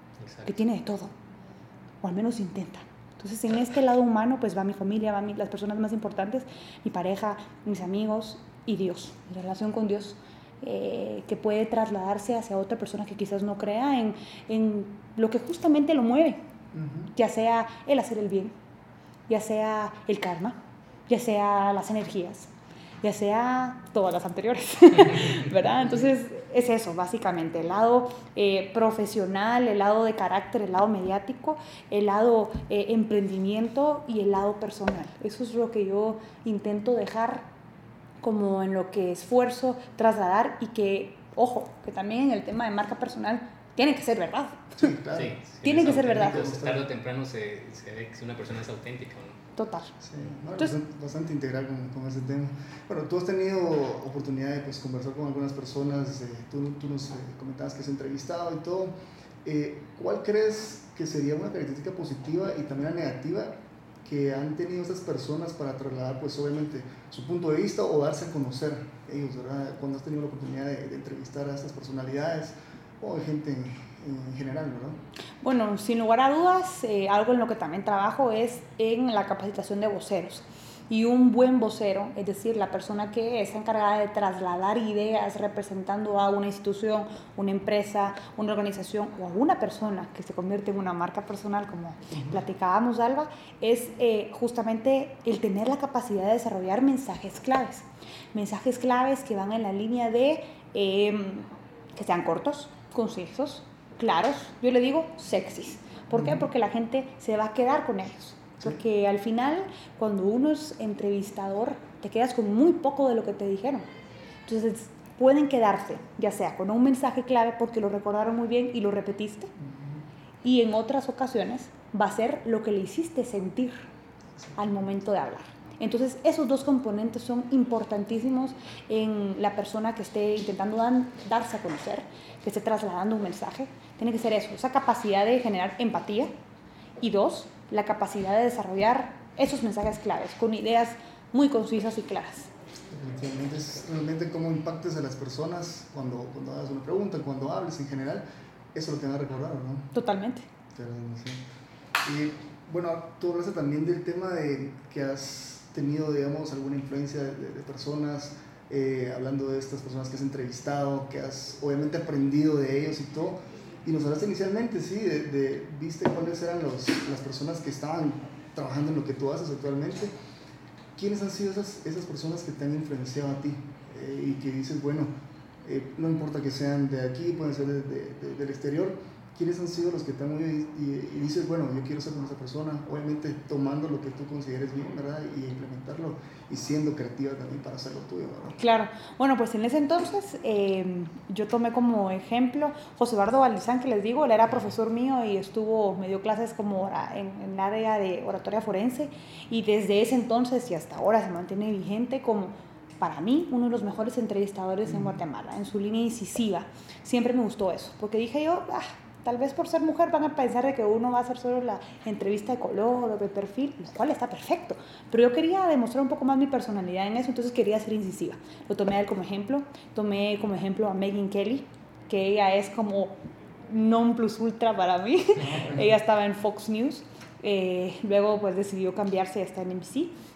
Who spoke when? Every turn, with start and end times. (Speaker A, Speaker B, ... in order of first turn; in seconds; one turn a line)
Speaker A: 0.2-0.5
Speaker B: 0.5-1.1
Speaker B: 2.0-16.4
Speaker C: 16.7-17.1
Speaker B: 17.1-18.6
Speaker B: 19.3-22.5
Speaker B: 23.0-37.5
Speaker B: 38.2-44.9
Speaker C: 44.8-46.9
Speaker A: 45.1-49.4
Speaker B: 45.6-46.4
Speaker B: 49.6-49.9
Speaker C: 50.0-63.5
Speaker C: 64.0-75.0
Speaker B: 75.4-113.9
Speaker C: 106.1-106.5
Speaker B: 114.5-119.5
Speaker B: 120.4-123.8
Speaker B: 124.6-136.3
Speaker B: 137.0-142.5
Speaker C: 142.9-149.9
Speaker B: 149.9-150.5
Speaker C: 150.7-151.4
Speaker C: 152.0-170.1
Speaker C: 171.0-175.1
Speaker C: 175.6-188.6
Speaker B: 188.6-223.2
Speaker B: 223.7-230.2
Speaker C: 225.4-225.9